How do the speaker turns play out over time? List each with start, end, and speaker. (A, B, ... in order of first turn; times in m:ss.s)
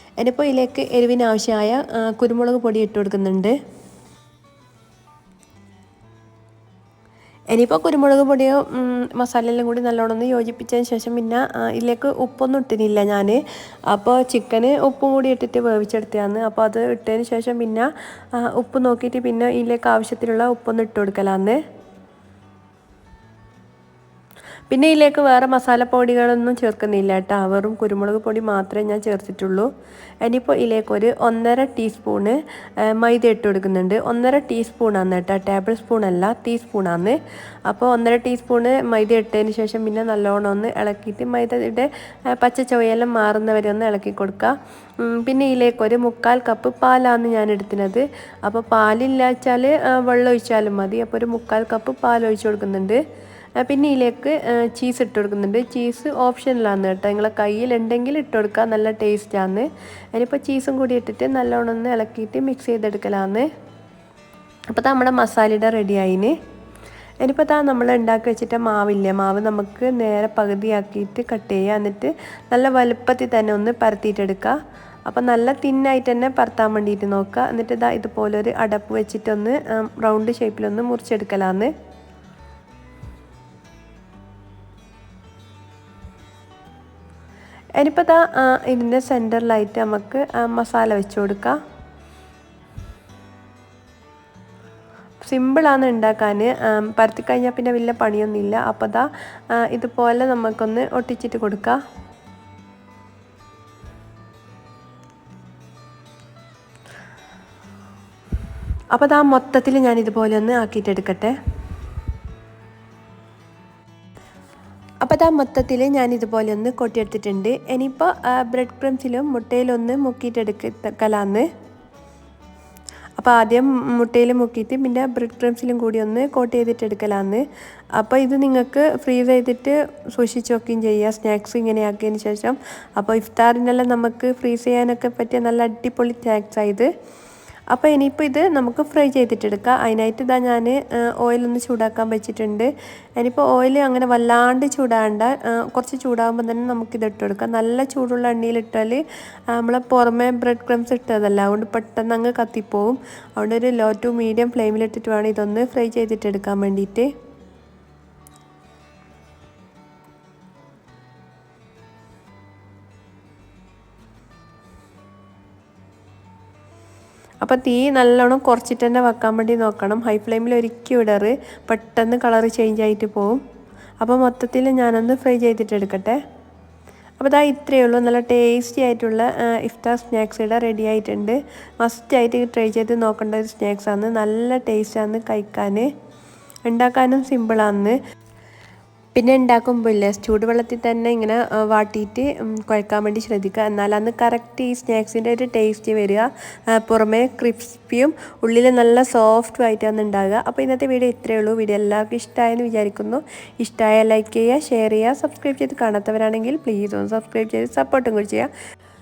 0:00.2-0:03.6 A
0:07.5-0:21.6 A
0:24.7-0:29.7 A
0:30.2-0:53.0 A
0:53.6-1:03.5 A
1:04.7-1:06.4 A
1:07.2-1:14.6 A
1:15.1-1:21.7 A
1:27.8-1:31.6 A
1:35.2-1:41.8 A
1:48.9-1:51.3 A
1:55.0-2:01.5 A
2:03.2-2:07.4 A
2:08.0-2:16.9 A
2:17.7-2:29.0 A
2:29.5-2:37.1 A
2:47.4-2:53.4 A
2:54.0-2:56.2 A
2:57.2-3:05.9 A
3:06.7-3:08.0 A
3:09.2-3:28.5 A